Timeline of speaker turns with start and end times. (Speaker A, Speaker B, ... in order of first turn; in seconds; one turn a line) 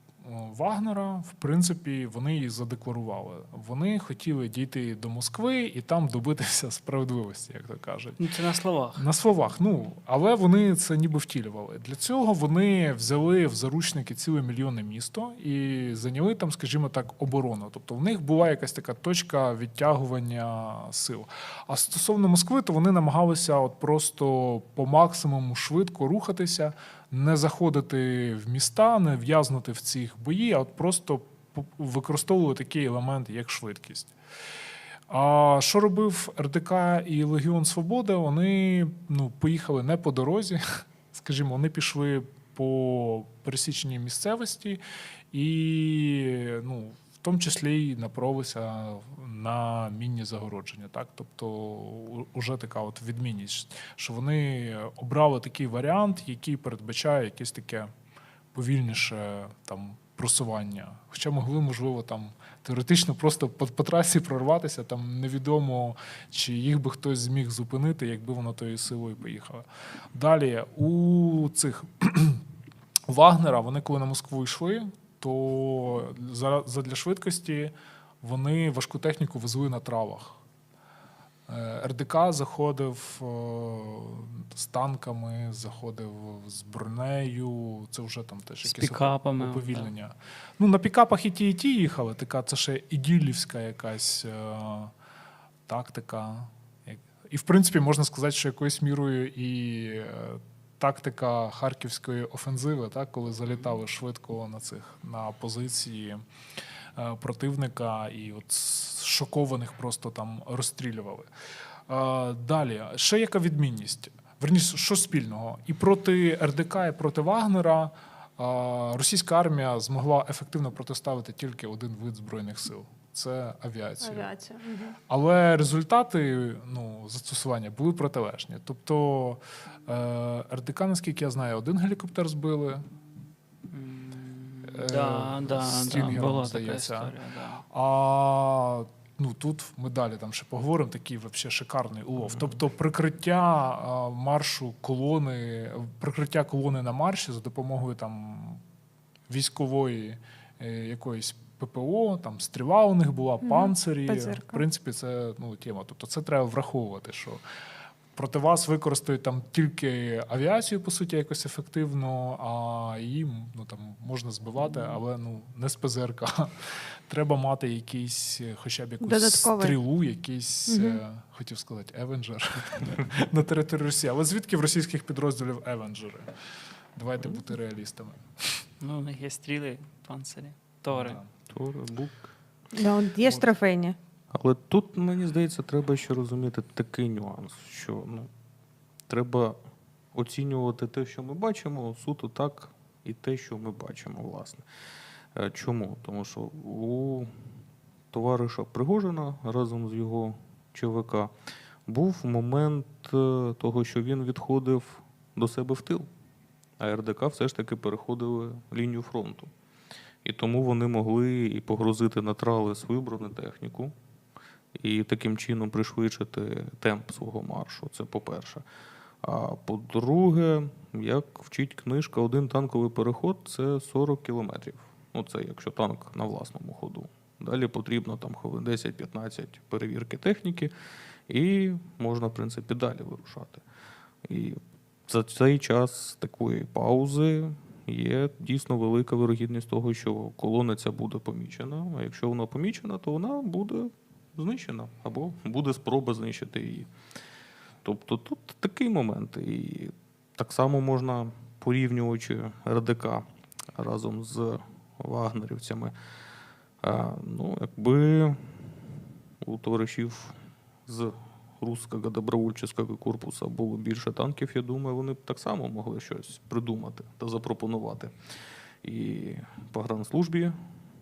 Speaker A: 0.2-8.2
Speaker B: 8.2-9.1
Speaker A: 9.0-34.1
Speaker A: 35.1-44.8
Speaker A: 45.3-57.9
Speaker A: 58.5-72.4
Speaker A: 73.1-80.4
Speaker A: 81.5-94.9
Speaker B: 88.6-89.9
Speaker A: 95.7-106.2
Speaker A: 107.0-111.3
Speaker A: 111.9-124.3
Speaker C: 124.0-125.0
Speaker A: 125.1-132.8
Speaker B: 133.7-137.6
Speaker A: 134.7-137.2
Speaker A: 137.7-148.6
Speaker A: 149.3-157.4
Speaker C: 153.4-154.6
Speaker A: 158.1-176.3
Speaker C: 169.0-169.8
Speaker C: 170.7-171.0
Speaker A: 176.9-178.6
Speaker B: 178.8-181.2
Speaker A: 180.9-181.3
Speaker D: 181.5-182.3
Speaker C: 182.7-184.0
Speaker D: 184.3-188.3
Speaker D: 189.1-189.6
Speaker D: 190.1-194.7
Speaker D: 195.3-197.3
Speaker D: 198.1-201.3
Speaker D: 201.9-206.1
Speaker D: 206.8-209.5
Speaker D: 210.2-213.9
Speaker D: 214.8-218.6
Speaker D: 219.2-230.7
Speaker D: 231.3-233.6
Speaker D: 234.3-246.9
Speaker D: 247.8-255.9
Speaker D: 256.8-258.7
Speaker D: 259.4-260.4
Speaker D: 260.9-268.1
Speaker D: 268.8-270.6